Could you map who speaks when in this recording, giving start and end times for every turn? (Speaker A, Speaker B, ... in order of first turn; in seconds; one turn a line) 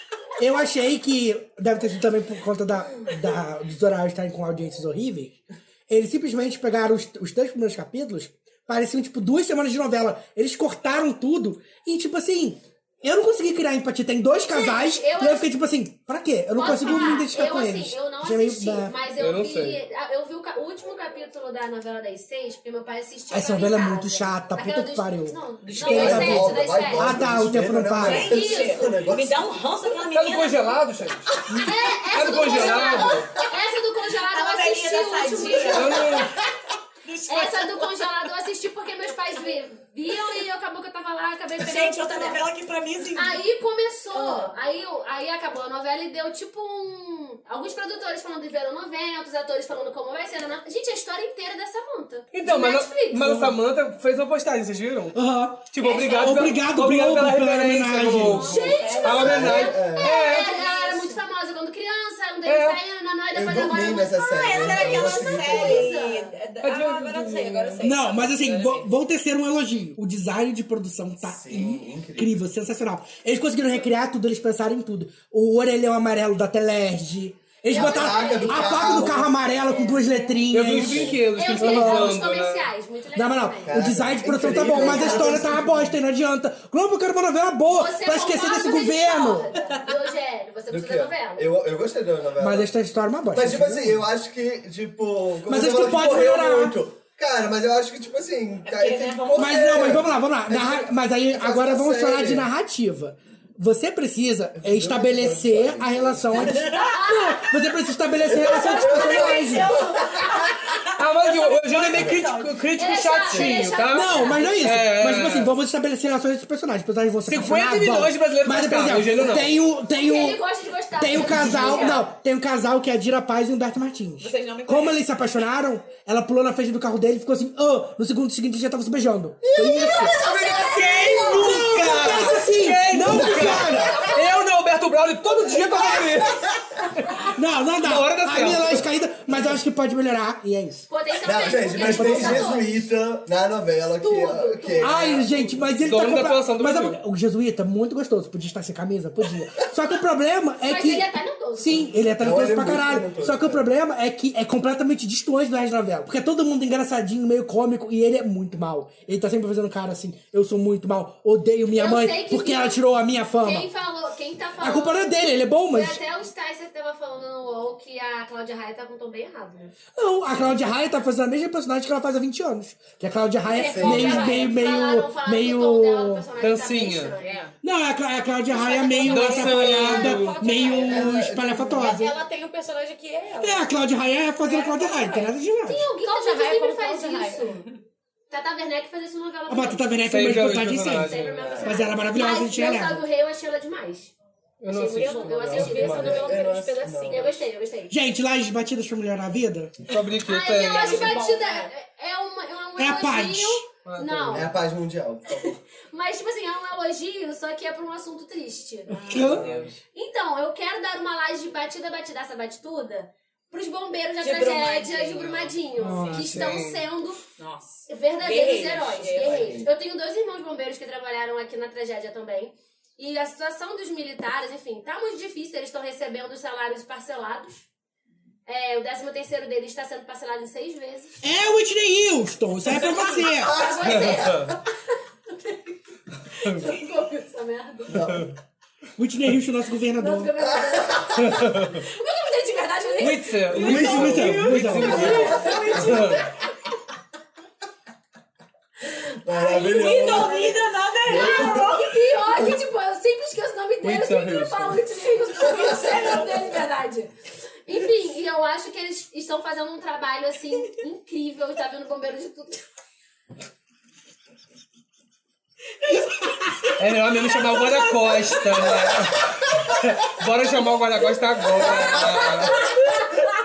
Speaker A: 0.4-18.9
Speaker B: 14.3-15.5
Speaker B: 16.5-27.2
Speaker C: 19.2-19.8
Speaker A: 23.3-28.3
Speaker D: 25.6-26.4
Speaker E: 25.8-29.4
Speaker D: 28.0-30.8
Speaker B: 28.1-29.0
Speaker C: 30.1-31.4
Speaker B: 31.5-36.3
Speaker C: 32.1-33.4
Speaker D: 32.5-33.5
Speaker D: 34.1-38.2
Speaker C: 35.6-36.3
Speaker B: 37.3-42.4
Speaker D: 41.6-43.4
Speaker B: 43.1-53.4
Speaker D: 44.1-44.5
Speaker C: 52.3-60.6
Speaker A: 55.1-58.5
Speaker B: 58.2-66.3
Speaker D: 58.5-59.5
Speaker E: 58.5-60.2
Speaker D: 60.3-61.2
Speaker C: 62.4-62.8
Speaker E: 63.3-66.0
Speaker D: 64.3-68.9
Speaker C: 66.6-67.9
Speaker A: 67.8-82.2
Speaker E: 71.2-72.4
Speaker E: 77.7-79.5
Speaker B: 77.7-79.0
Speaker D: 79.6-80.4
Speaker C: 80.5-82.7
Speaker E: 80.8-81.2
Speaker B: 81.2-83.9
Speaker A: 83.1-89.5
Speaker E: 83.7-86.0
Speaker B: 84.7-85.3
Speaker B: 87.7-91.5
Speaker E: 90.7-92.7
Speaker A: 92.4-94.0
Speaker E: 93.3-102.5
Speaker A: 95.5-96.8
Speaker D: 98.7-100.0
Speaker A: 99.3-109.8
Speaker E: 104.5-106.8
Speaker D: 106.3-107.0
Speaker B: 106.5-107.5
Speaker E: 108.3-110.6
Speaker D: 108.4-112.7
Speaker C: 110.9-115.5
Speaker E: 111.9-112.2
Speaker B: 112.7-114.7
Speaker A: 113.9-120.4
Speaker C: 117.3-119.5
Speaker B: 119.9-122.0
Speaker A: 121.0-130.1
Speaker D: 121.1-122.0
Speaker D: 124.2-125.0
Speaker E: 129.4-132.0
Speaker B: 129.9-132.2
Speaker D: 130.6-131.2
Speaker C: 130.6-137.3
Speaker A: 131.2-134.1
Speaker B: 133.2-134.5
Speaker B: 135.4-136.2
Speaker A: 137.3-140.9
Speaker C: 137.8-138.8
Speaker B: 140.9-142.7
Speaker E: 141.2-146.0
Speaker A: 141.7-142.6
Speaker B: 144.0-145.0
Speaker A: 144.8-163.7
Speaker C: 145.8-147.0
Speaker B: 150.6-151.9
Speaker E: 152.2-153.6
Speaker B: 161.7-162.8
Speaker B: 163.4-169.8
Speaker A: 164.6-166.0
Speaker A: 169.9-176.2
Speaker B: 173.4-177.4
Speaker E: 173.6-174.4
Speaker C: 176.4-177.1
Speaker D: 177.2-177.5
Speaker A: 177.6-182.1
Speaker B: 178.5-180.8
Speaker D: 178.8-183.7
Speaker C: 179.0-180.4
Speaker E: 180.8-181.9
Speaker A: 183.4-185.9
Speaker D: 184.4-185.3
Speaker B: 185.6-187.7
Speaker D: 186.0-187.7
Speaker B: 188.3-190.0
Speaker A: 189.5-193.0
Speaker C: 190.1-191.6
Speaker B: 190.9-194.1
Speaker E: 191.4-191.8
Speaker C: 194.6-196.3
Speaker B: 194.7-197.9
Speaker D: 194.9-196.6
Speaker E: 195.5-197.4
Speaker A: 197.9-199.8
Speaker C: 199.9-201.1
Speaker B: 200.2-204.5
Speaker D: 200.5-201.7
Speaker A: 202.8-203.7
Speaker C: 203.8-204.4
Speaker E: 204.3-205.6
Speaker B: 205.3-209.2
Speaker A: 208.9-209.4
Speaker D: 208.9-209.8
Speaker E: 209.2-209.7
Speaker B: 209.9-217.2
Speaker D: 214.2-216.2
Speaker A: 215.8-216.3
Speaker C: 216.0-216.8
Speaker D: 217.4-219.7
Speaker B: 217.9-227.6
Speaker E: 219.2-219.7
Speaker B: 228.5-231.2
Speaker A: 231.2-233.7
Speaker B: 232.8-234.7
Speaker E: 233.5-234.2
Speaker C: 233.8-234.5
Speaker B: 235.3-235.6
Speaker B: 236.3-238.2
Speaker E: 237.9-238.3
Speaker A: 239.0-240.3
Speaker B: 240.0-244.1
Speaker E: 240.4-241.4
Speaker C: 241.2-241.8
Speaker C: 243.0-246.3
Speaker D: 243.5-246.3
Speaker A: 243.5-245.3
Speaker E: 243.6-246.0
Speaker B: 244.7-246.4
Speaker E: 249.2-250.5
Speaker B: 249.3-250.5
Speaker D: 249.4-251.8
Speaker E: 251.1-252.5
Speaker B: 251.1-257.1
Speaker C: 253.8-254.8
Speaker B: 257.6-262.6
Speaker D: 265.8-266.7
Speaker C: 266.8-272.7
Speaker B: 271.8-273.1